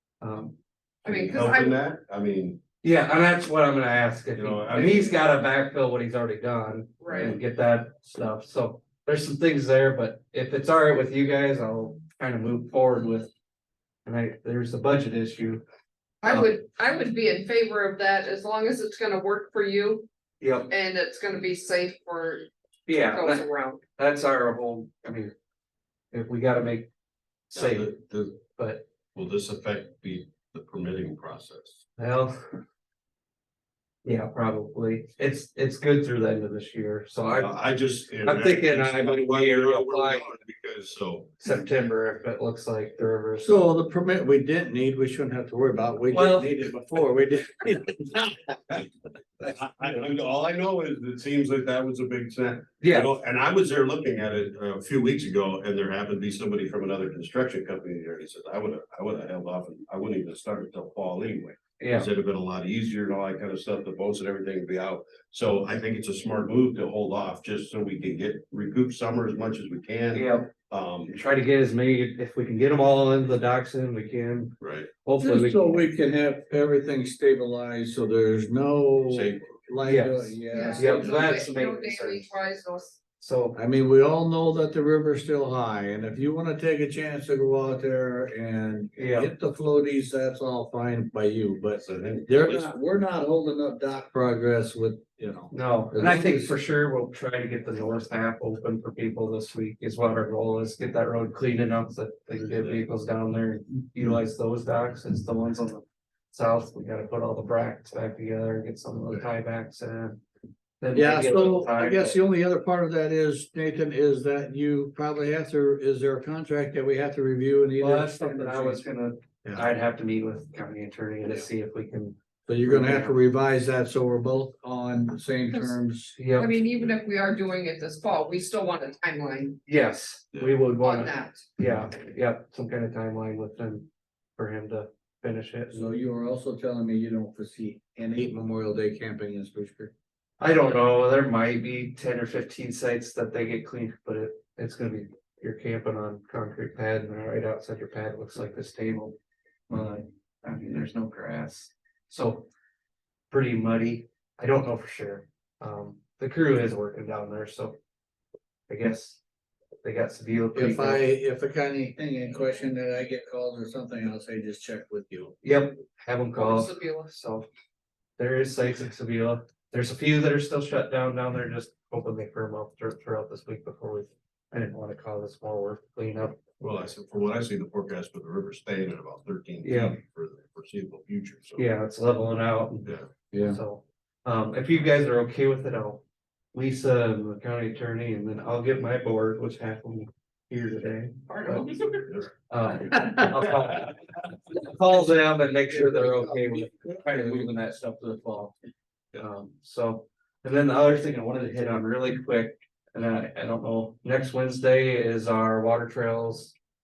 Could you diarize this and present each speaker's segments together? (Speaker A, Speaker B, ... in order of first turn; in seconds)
Speaker A: 0.2-0.5, 2.8-13.3, 14.0-15.6, 16.2-16.5, 20.4-20.7, 22.9-23.4, 23.9-25.3, 26.1-26.9, 27.5-27.9, 28.6-28.8, 32.0-32.5, 34.0-37.6, 38.2-40.3, 41.4-43.6, 46.1-46.5, 52.8-53.1, 61.8-62.1, 70.1-70.5, 71.1-75.8, 79.8-82.3, 83.2-83.6, 89.0-89.3, 95.5-110.2, 110.8-112.2, 117.8-123.1, 126.2-126.6, 129.7-135.9, 140.4-149.2, 149.7-152.5, 153.3-157.8, 158.7-159.2, 159.8-161.0, 165.4-167.5, 168.2-176.4, 179.6-180.0, 181.6-191.7, 192.5-194.0, 194.5-198.5, 199.2-206.5
Speaker B: 1.0-1.8, 7.0-7.3, 16.2-20.1, 20.7-23.8, 80.5-83.0, 126.3-129.6, 130.8-131.4, 166.3-167.1, 191.3-192.1
Speaker C: 1.0-2.6, 4.3-5.2, 27.5-28.4, 29.1-31.9, 37.3-41.4, 49.4-71.2, 74.6-74.9, 79.1-79.5, 91.8-92.8, 176.6-181.7
Speaker D: 43.4-48.8, 75.2-81.3, 83.5-96.5, 110.9-118.8, 122.5-126.2, 135.7-139.9, 160.5-165.4, 183.3-183.6, 195.7-197.5